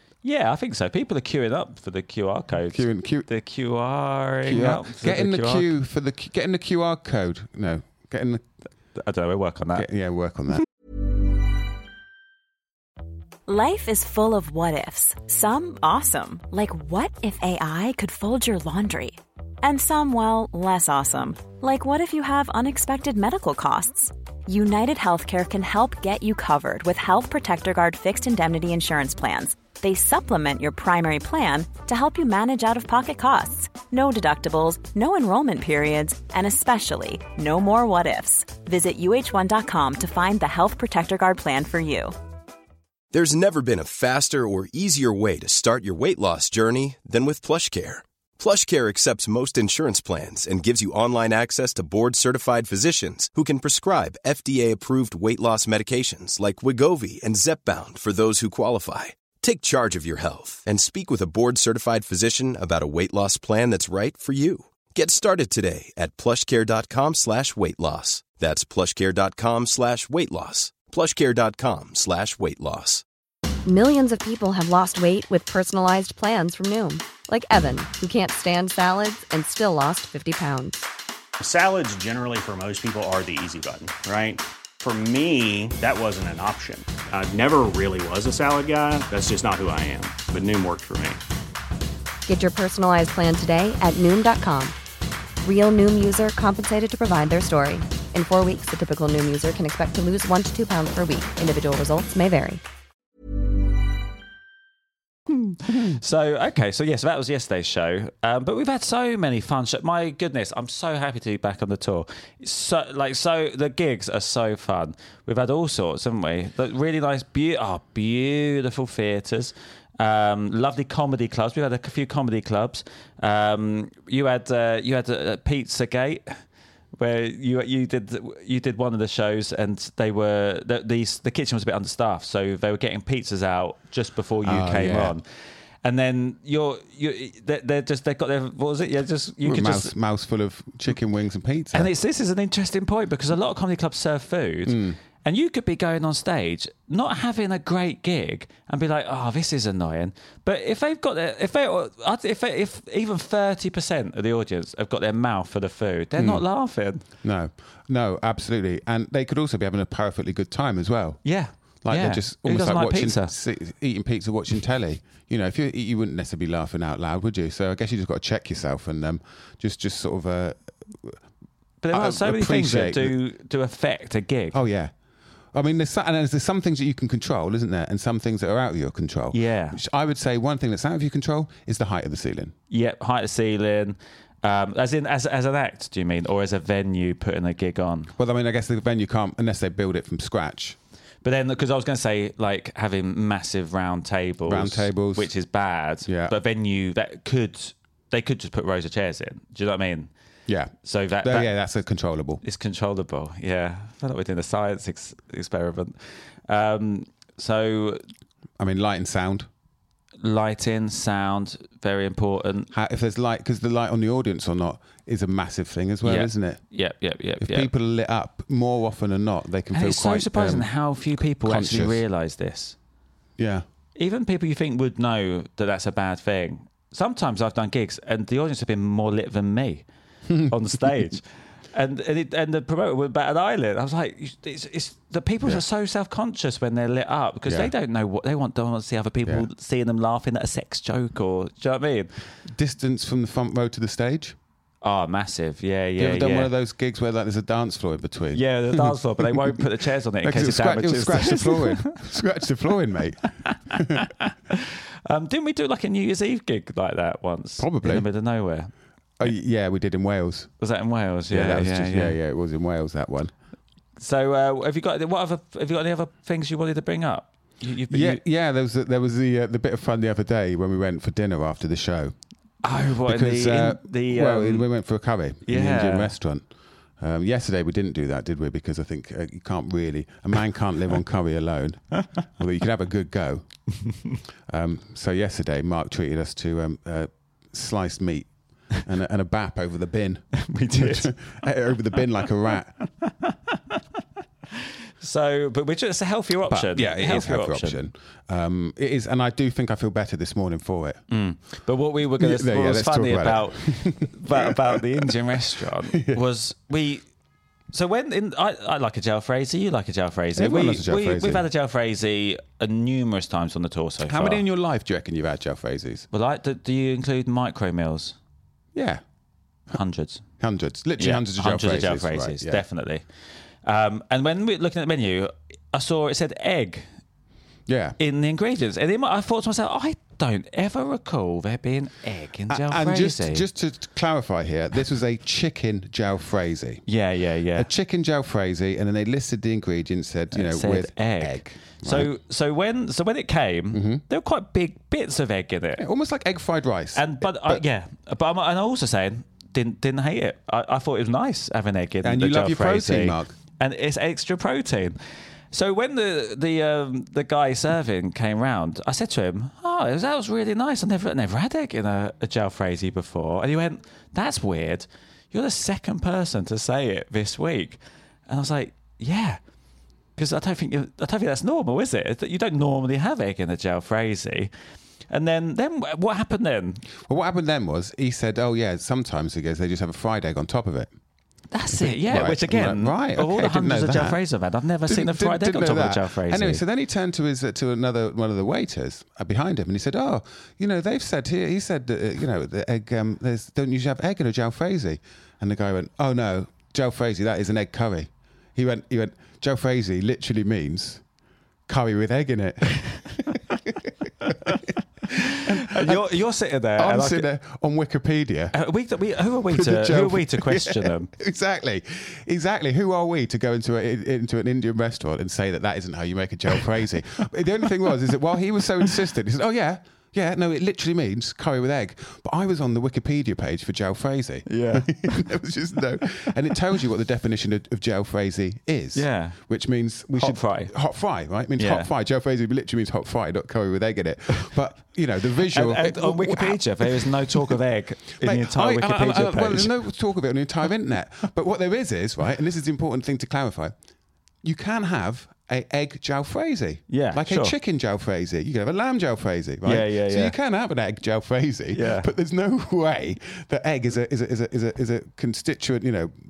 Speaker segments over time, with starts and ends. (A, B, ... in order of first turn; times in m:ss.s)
0:00.2-0:05.7 A
0:02.7-0:03.3 B
0:04.4-0:08.5 B
0:09.0-0:09.9 A
0:09.8-0:10.6 B
0:13.5-0:42.2 C
0:43.1-1:13.0 D
1:13.7-1:20.8 E
1:21.4-1:31.2 F
1:32.3-1:34.8 E
1:35.4-1:42.6 E
1:45.3-2:06.4 A
2:07.0-2:19.9 A
2:14.4-2:15.2 B
2:19.4-2:21.9 B
2:21.7-2:37.0 A
2:24.7-2:25.0 B
2:36.2-2:36.4 B
2:37.2-2:41.2 B
2:41.2-2:43.3 A
2:41.8-2:51.2 B
2:51.8-2:54.6 A
2:51.9-2:53.2 B
2:54.5-2:54.9 B
2:55.5-3:02.5 B
2:59.3-2:59.8 A
3:02.7-3:08.1 A
3:08.2-3:10.8 B
3:11.2-3:20.1 A
3:14.5-3:15.3 B
3:16.1-3:16.4 B
3:20.5-3:22.4 B
3:20.8-3:21.5 A
3:22.4-3:28.0 A
3:28.6-3:29.5 B
3:30.2-3:32.7 A
3:32.7-3:36.6 B
3:36.0-3:37.7 A
3:37.4-3:40.7 B
3:39.7-3:42.8 A
3:41.3-3:42.0 B
3:43.4-3:43.6 B
3:44.0-3:49.8 A
3:50.3-3:50.9 B
3:50.5-4:02.1 A
3:57.5-3:57.7 B
4:02.5-4:04.4 B
4:04.8-4:06.5 A
4:06.0-4:09.6 B
4:08.3-4:12.0 A
4:10.2-4:14.1 B
4:13.4-4:18.7 A
4:17.6-4:18.0 B
4:19.2-4:20.5 B
4:20.6-4:22.2 A
4:21.3-4:23.3 B
4:24.0-4:28.2 A
4:27.9-4:32.1 B
4:32.6-4:34.7 A
4:33.0-4:36.5 B
4:35.4-4:36.2 A
4:37.0-4:43.5 B
4:44.5-4:52.8 B
4:50.4-4:51.1 A
4:51.9-4:53.8 A
4:54.6-4:57.9 A
4:56.5-5:01.0 B
5:01.1-5:07.0 A
5:02.2-5:05.1 B
5:06.0-5:06.2 B
5:07.7-5:14.4 A
5:10.4-5:11.4 B
5:14.1-5:16.1 B
5:16.1-5:18.2 A
5:18.8-5:19.0 B
5:19.7-5:20.2 A
5:20.4-5:22.6 B
5:21.0-5:23.0 A
5:23.6-5:26.9 A
5:27.7-5:28.0 B
5:28.0-5:33.5 A
5:32.5-5:36.8 B
5:36.9-5:37.7 A
5:37.6-5:42.1 B
5:40.3-5:45.8 A
5:43.7-5:44.0 B
5:45.8-5:47.6 B
5:47.0-5:55.0 A
5:52.0-5:53.3 B
5:55.5-6:09.4 A
6:10.2-6:14.5 A
6:15.1-6:16.8 A
6:17.0-6:20.9 B
6:21.5-6:26.6 A
6:21.7-6:24.2 B
6:24.9-6:41.0 B
6:41.7-6:43.4 B
6:44.2-6:44.6 B
6:45.3-6:46.0 B
6:45.5-6:47.3 A
6:46.8-6:48.5 B
6:48.5-6:51.1 A
6:49.5-7:17.5 B
7:04.5-7:05.3 A
7:09.0-7:09.4 A
7:10.1-7:10.7 A
7:11.6-7:11.9 A
7:15.5-7:19.8 A
7:18.2-7:23.7 B
7:24.4-7:36.1 B
7:26.9-7:27.6 A
7:29.6-7:30.4 A
7:31.7-7:32.1 A